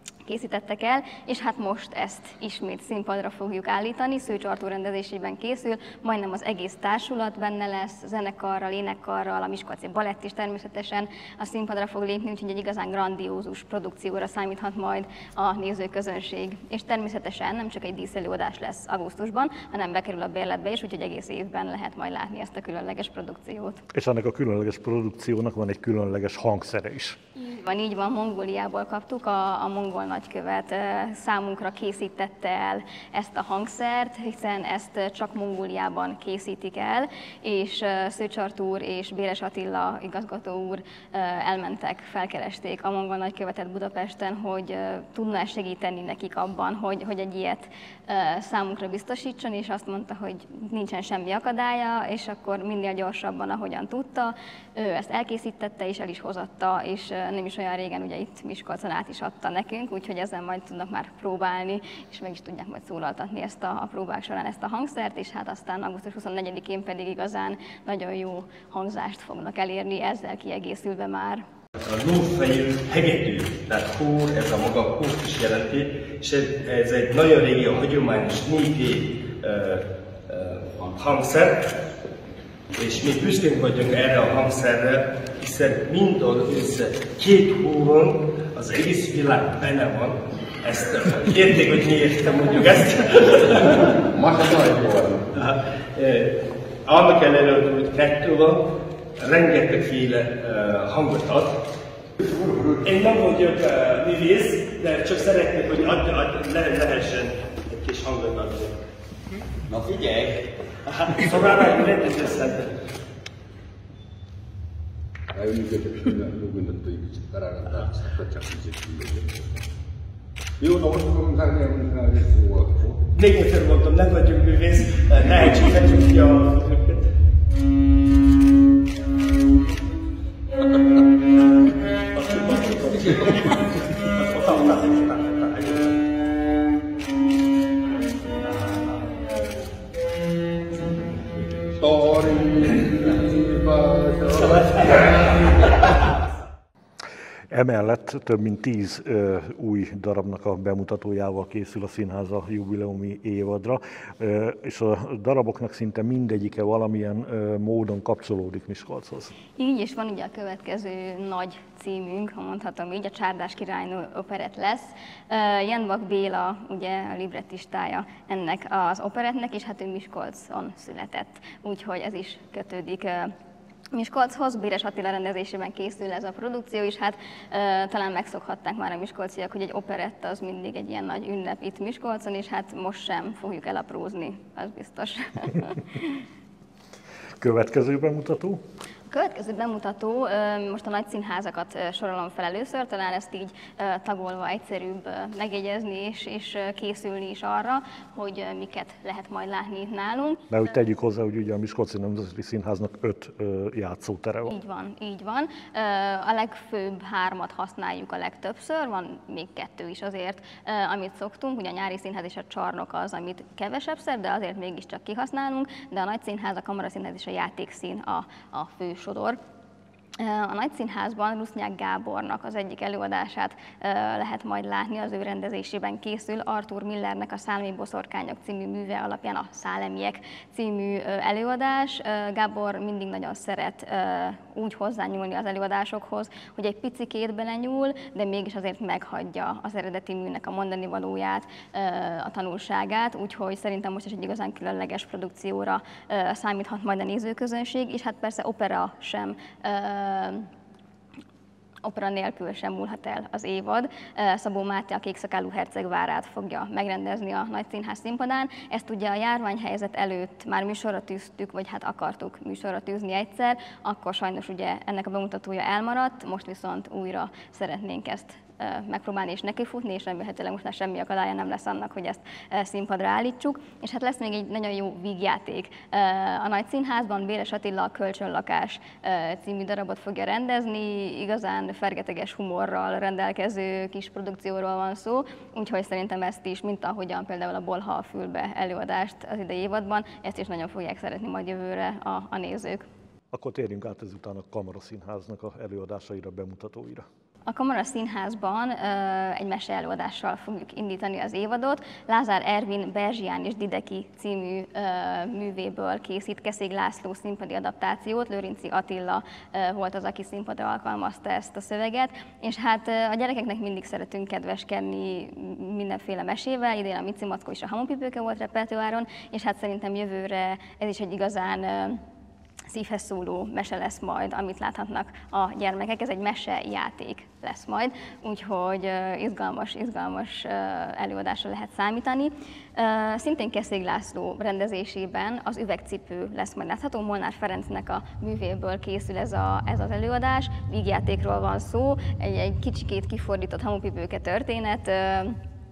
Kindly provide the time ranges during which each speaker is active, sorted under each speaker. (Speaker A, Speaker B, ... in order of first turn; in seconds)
Speaker A: 0.2-23.8, 27.4-71.4, 159.6-173.3, 173.9-186.2, 189.1-200.4, 204.5-219.4, 220.2-250.5, 251.8-292.9, 297.4-322.0, 322.7-345.4
Speaker B: 23.9-27.2, 147.5-159.3, 187.4-188.6, 200.5-204.5, 293.3-297.0
Speaker C: 71.8-81.7, 82.8-94.1, 95.3-96.3, 96.8-98.6, 99.2-101.6, 102.8-108.8, 109.7-112.7, 123.1-127.0, 132.3-133.4, 134.3-135.8
Speaker D: 94.1-95.3, 102.3-102.7, 115.3-119.5, 120.6-123.0, 132.8-133.3, 141.7-145.4